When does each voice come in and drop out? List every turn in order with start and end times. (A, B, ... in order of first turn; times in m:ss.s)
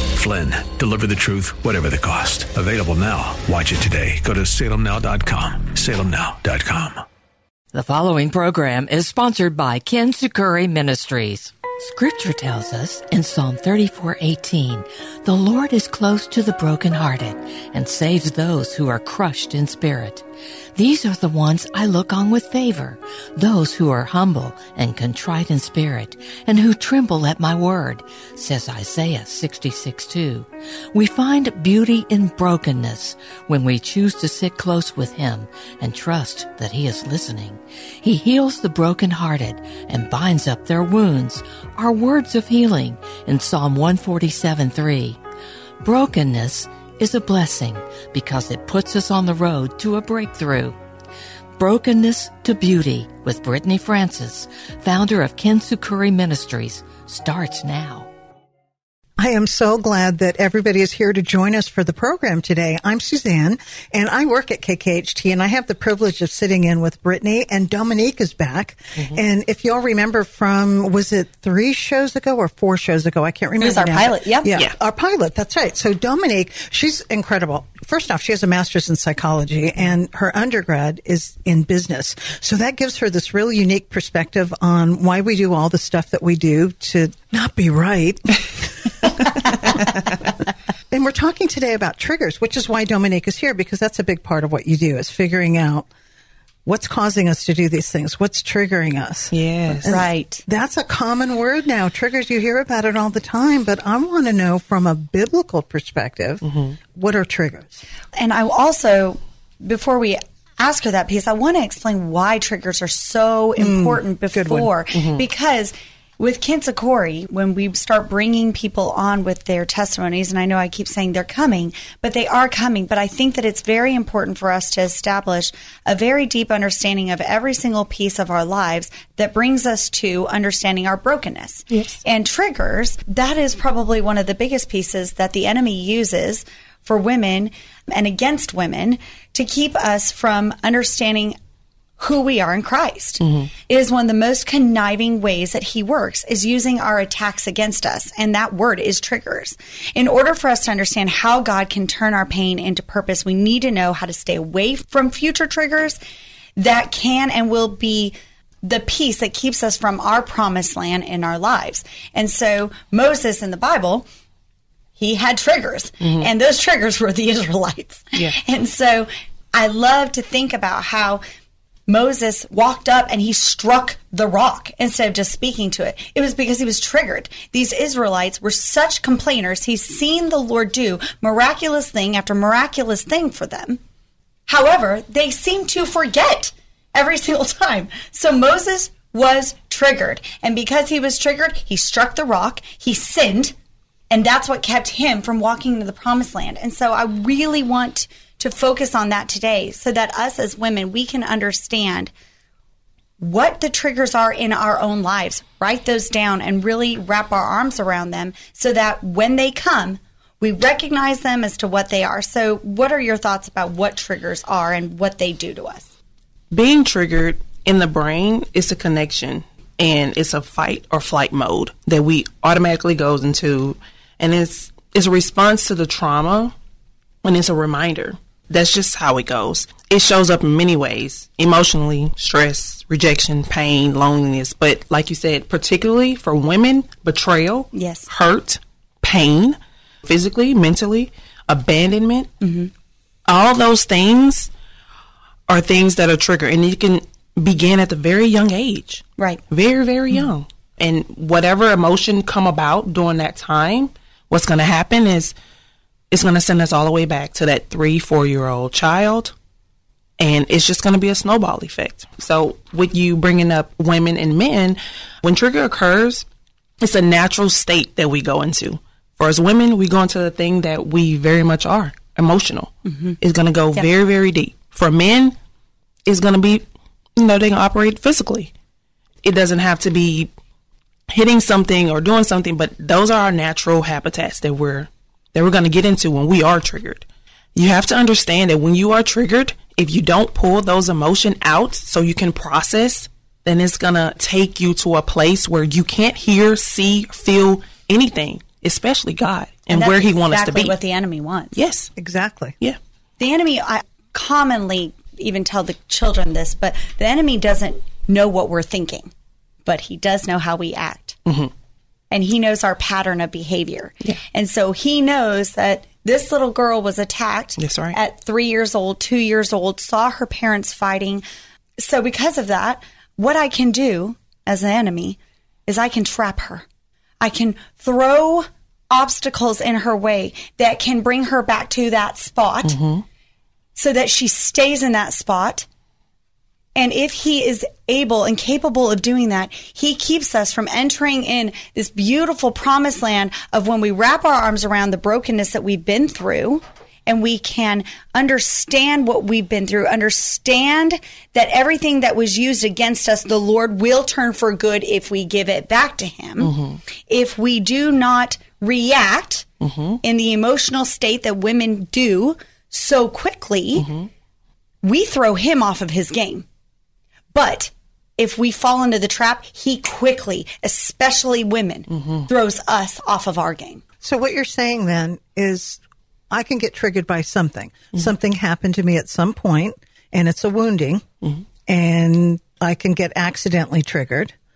0:00.1-0:07.0 A
0:07.7-0:20.2 B
0:20.8-0:45.2 B
0:45.8-0:50.8 B
0:51.6-0:58.1 B
0:59.2-1:30.3 C
1:13.6-1:14.5 D
1:30.9-1:35.9 C
1:36.6-1:46.4 C
1:39.3-1:40.0 E
1:39.9-1:40.4 D
1:46.4-1:46.8 E
1:46.9-1:47.8 C
1:48.2-2:21.4 D
1:53.6-1:54.7 C
1:55.0-1:55.2 E
2:11.7-2:12.0 E
2:22.0-2:36.0 D
2:23.2-2:23.5 E
2:36.6-2:44.1 D
2:45.0-2:51.2 D
2:46.0-2:46.3 E
2:51.9-3:03.8 D
3:04.5-3:13.6 D
3:14.1-3:22.1 D
3:23.2-3:35.9 D
3:36.5-3:46.6 E
3:47.2-4:02.3 E
3:57.7-3:58.1 D
4:02.4-4:02.7 D
4:03.3-4:04.5 E
4:05.5-4:15.3 E
4:16.1-4:19.3 E
4:20.2-4:26.2 E
4:26.8-4:35.4 E
4:32.8-4:33.2 D
4:36.1-4:36.6 E
4:37.2-4:38.5 E
4:39.2-4:40.3 E
4:41.1-5:00.8 E
4:59.7-5:01.6 D
5:01.6-5:01.9 E
5:02.0-5:02.6 C
5:03.2-5:09.1 D
5:09.6-5:11.2 D
5:11.3-5:11.5 E
5:12.1-5:21.2 D
5:17.6-5:18.0 E
5:21.8-5:26.6 D
5:27.2-5:32.8 D
5:32.6-5:33.0 E
5:33.8-5:35.7 D
5:36.8-5:56.5 D
5:56.4-5:56.8 E
5:57.1-5:59.5 D
5:59.6-6:00.0 E
6:00.0-6:03.9 D
6:03.8-6:04.1 E
6:04.8-6:06.5 D
6:07.3-6:13.8 D
6:11.9-6:12.3 E
6:14.0-6:21.0 C
6:21.7-6:24.3 C